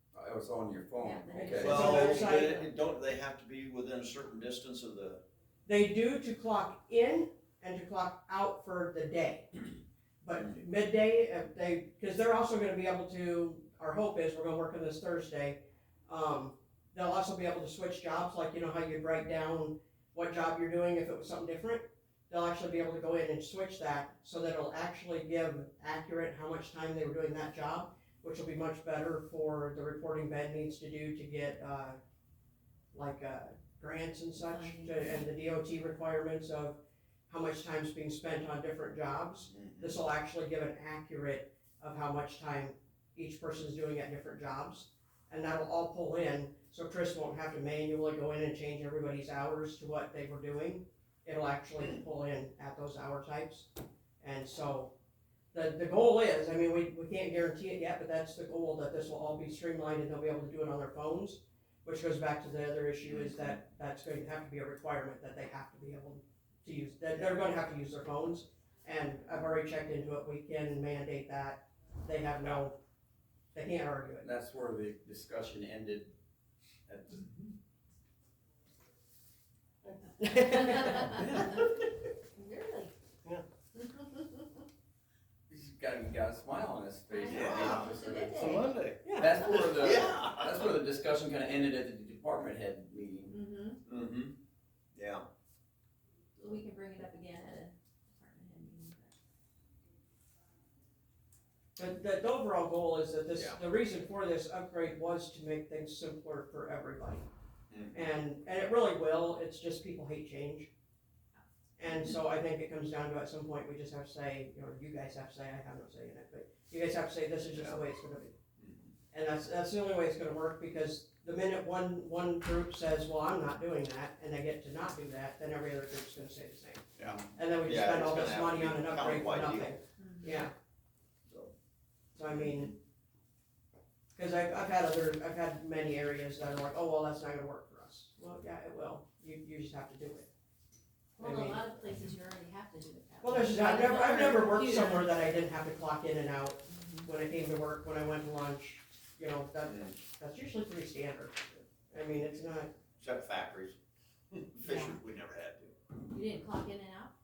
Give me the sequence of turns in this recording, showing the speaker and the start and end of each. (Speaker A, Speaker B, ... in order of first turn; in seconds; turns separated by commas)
Speaker A: 0.1-2.0, Speaker B: 1.0-2.3, Speaker C: 1.3-2.7, Speaker D: 1.6-5.2, Speaker C: 5.7-32.0, Speaker C: 32.9-36.8, Speaker B: 34.4-35.2, Speaker C: 37.3-53.7, Speaker D: 39.5-40.0, Speaker C: 54.2-54.9, Speaker C: 55.5-72.8, Speaker C: 73.5-74.3, Speaker A: 74.2-76.1, Speaker A: 76.9-77.3, Speaker C: 80.2-81.8, Speaker B: 80.6-81.2, Speaker B: 82.3-82.9, Speaker B: 83.8-84.6, Speaker A: 85.5-93.3, Speaker B: 87.1-88.8, Speaker D: 87.3-90.7, Speaker C: 89.0-89.5, Speaker B: 89.5-89.9, Speaker B: 93.3-93.8, Speaker D: 93.8-94.3, Speaker D: 94.9-95.3, Speaker B: 96.4-99.1, Speaker C: 101.8-107.3, Speaker D: 103.3-103.6, Speaker D: 107.7-108.0, Speaker C: 107.9-110.7, Speaker C: 111.8-118.4, Speaker D: 117.5-117.8, Speaker D: 118.6-119.0, Speaker C: 119.1-126.8, Speaker D: 127.0-129.8, Speaker C: 127.3-130.5, Speaker B: 130.0-130.5, Speaker D: 131.3-131.5, Speaker C: 132.2-132.7, Speaker D: 132.3-132.7, Speaker C: 134.2-140.3, Speaker B: 141.2-145.1, Speaker C: 141.2-141.7, Speaker C: 143.2-152.7, Speaker B: 146.7-147.1, Speaker D: 149.7-149.9, Speaker D: 153.0-153.8, Speaker D: 154.3-155.7, Speaker B: 154.6-155.0, Speaker B: 156.1-157.1